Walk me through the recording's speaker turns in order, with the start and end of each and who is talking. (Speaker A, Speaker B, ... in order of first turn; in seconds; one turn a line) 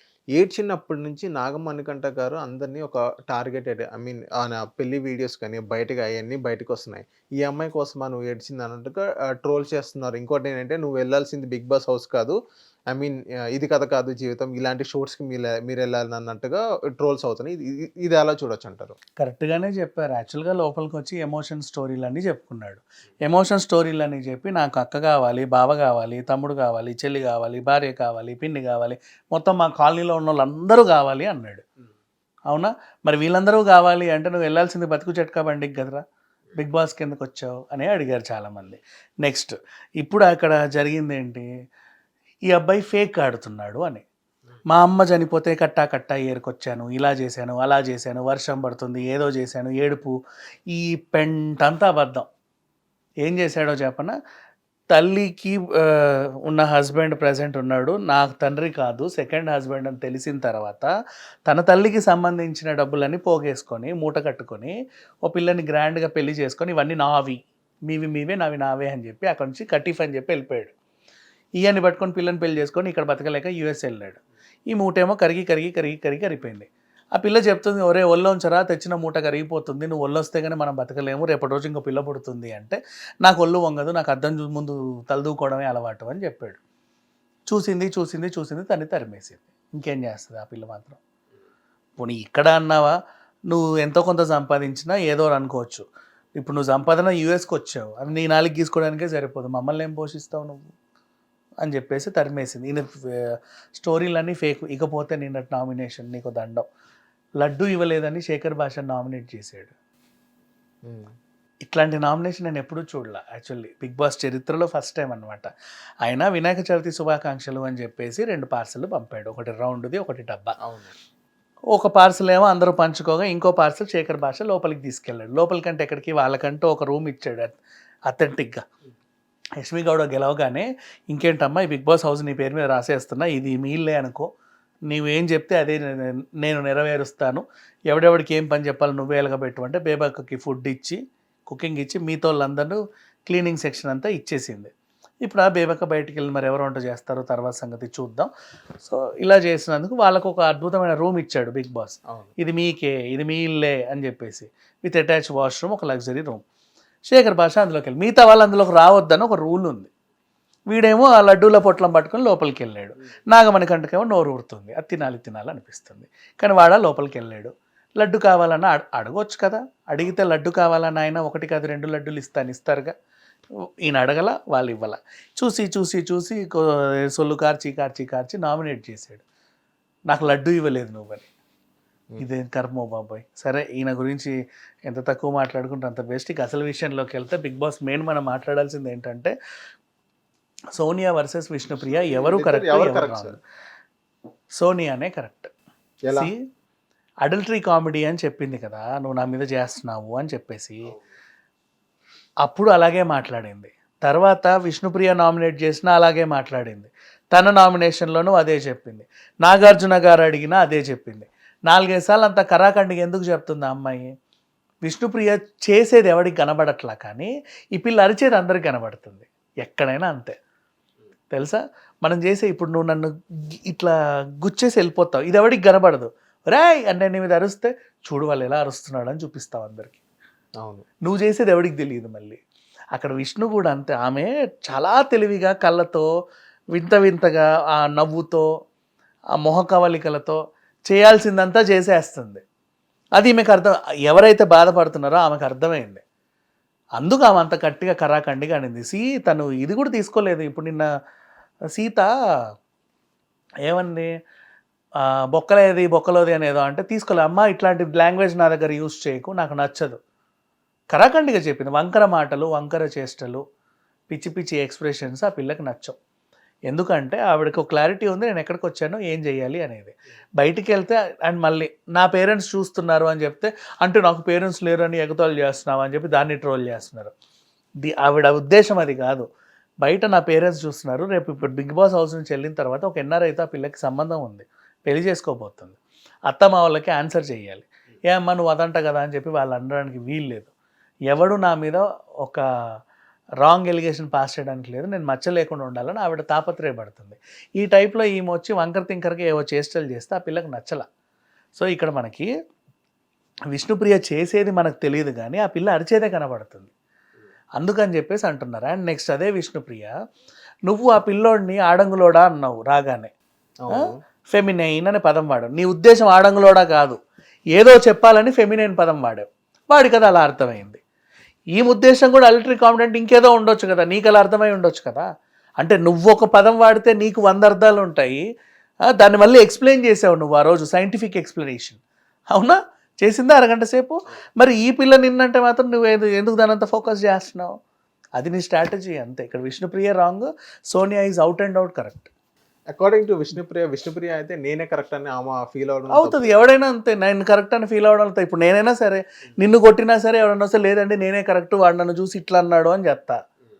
Speaker A: 0.3-12.3
Speaker A: 12.9-19.0
Speaker B: 19.2-31.6
Speaker B: 32.5-36.0
Speaker B: 36.5-41.5
Speaker B: 42.5-44.0
Speaker B: 44.7-50.1
Speaker B: 50.7-52.3
Speaker B: 53.2-54.1
Speaker B: 54.9-60.9
Speaker B: 61.5-70.7
Speaker B: 71.6-86.6
Speaker B: 87.5-91.0
Speaker B: 92.0-93.0
Speaker B: 93.5-95.8
Speaker B: 96.4-100.7
Speaker B: 101.6-106.6
Speaker B: 107.4-109.7
Speaker A: 110.8-111.1
Speaker B: 111.6-115.5
Speaker B: 116.0-120.5
Speaker A: 120.6-120.9
Speaker B: 121.7-128.6
Speaker B: 129.6-134.3
Speaker B: 134.9-148.3
Speaker B: 148.8-156.4
Speaker B: 157.1-159.9
Speaker B: 160.7-172.9
Speaker B: 173.8-179.2
Speaker B: 180.1-181.3
Speaker B: 182.2-184.3
Speaker B: 184.9-189.3
Speaker B: 190.7-193.4
Speaker A: 191.8-193.4
Speaker B: 194.6-195.5
Speaker A: 196.0-196.3
Speaker B: 197.2-200.9
Speaker B: 202.4-214.1
Speaker B: 214.8-220.3
Speaker B: 221.3-223.1
Speaker B: 223.6-230.0
Speaker B: 231.0-232.4
Speaker B: 232.9-236.1
Speaker B: 236.7-238.5
Speaker B: 239.4-242.4
Speaker B: 243.2-246.0
Speaker B: 247.0-250.9
Speaker B: 251.7-252.1
Speaker B: 253.7-254.1
Speaker B: 255.0-260.0
Speaker B: 260.9-263.4
Speaker B: 264.1-265.9
Speaker B: 266.7-277.1
Speaker B: 277.8-279.3
Speaker B: 279.8-290.5
Speaker B: 291.1-292.4
Speaker B: 293.4-300.9
Speaker B: 301.5-302.3
Speaker B: 303.5-306.7
Speaker B: 307.6-309.9
Speaker B: 310.7-313.1
Speaker A: 313.6-314.0
Speaker B: 314.3-317.0
Speaker B: 317.5-320.8
Speaker B: 321.5-325.1
Speaker B: 325.6-328.2
Speaker B: 328.9-337.5
Speaker B: 338.2-342.1
Speaker A: 342.7-346.4
Speaker B: 345.9-353.2